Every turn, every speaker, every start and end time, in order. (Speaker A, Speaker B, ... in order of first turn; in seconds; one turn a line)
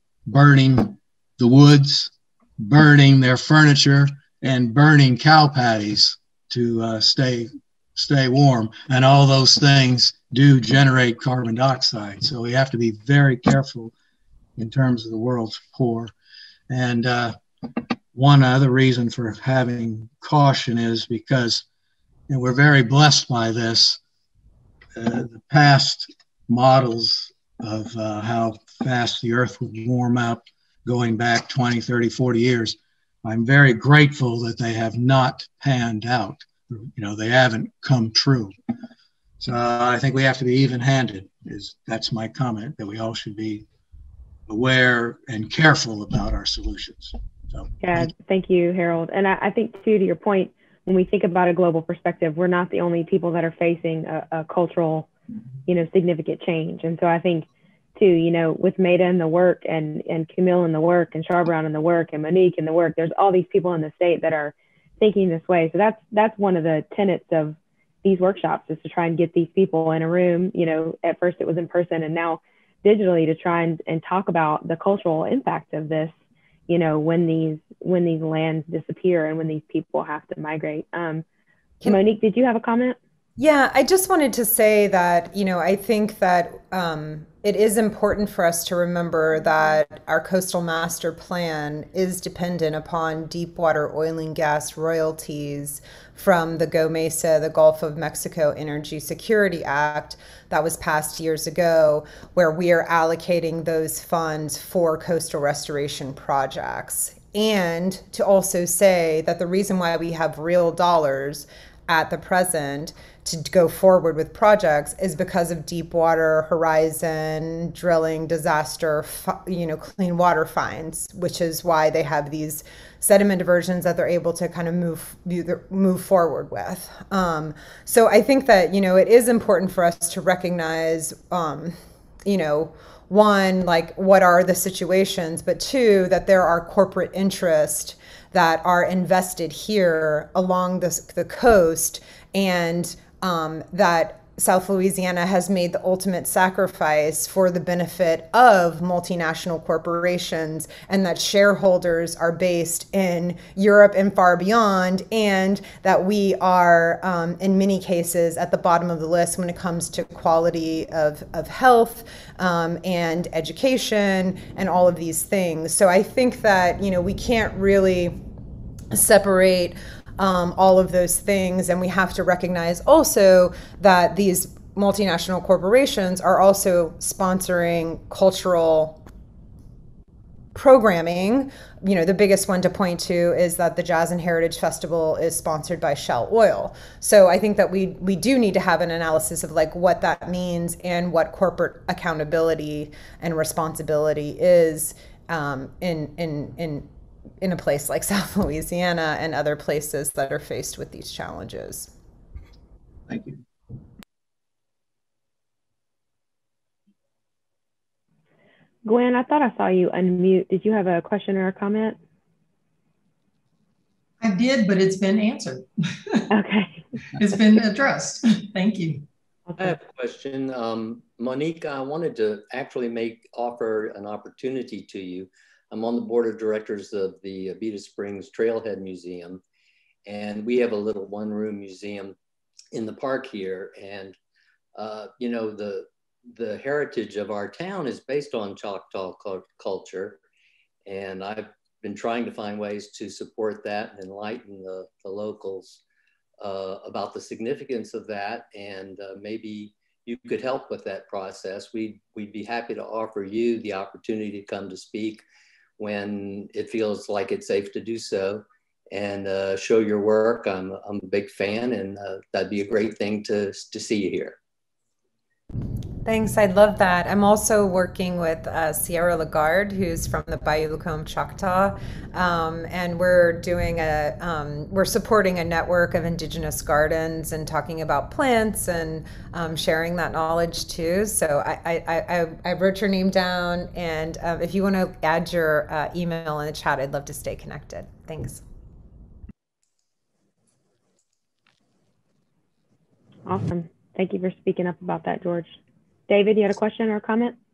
Speaker A: 0.3-13.9
Speaker A: 14.6-16.1
Speaker A: 16.7-21.6
Speaker A: 22.3-24.0
Speaker A: 24.9-38.5
Speaker A: 39.4-43.6
Speaker A: 44.5-48.1
Speaker B: 47.8-55.1
Speaker B: 55.6-76.1
Speaker B: 76.7-81.2
Speaker B: 81.8-83.0
Speaker C: 83.4-168.2
Speaker C: 168.9-179.0
Speaker C: 180.5-196.9
Speaker C: 197.4-201.9
Speaker A: 203.1-203.4
Speaker B: 208.8-212.0
Speaker D: 214.2-216.2
Speaker B: 216.3-216.8
Speaker D: 217.2-219.0
Speaker E: 219.6-229.4
Speaker E: 230.0-232.2
Speaker E: 232.7-234.2
Speaker E: 234.7-240.2
Speaker E: 240.8-245.8
Speaker E: 246.4-255.2
Speaker E: 255.8-264.4
Speaker C: 266.0-288.4
Speaker B: 293.2-295.5
Speaker B: 296.1-297.3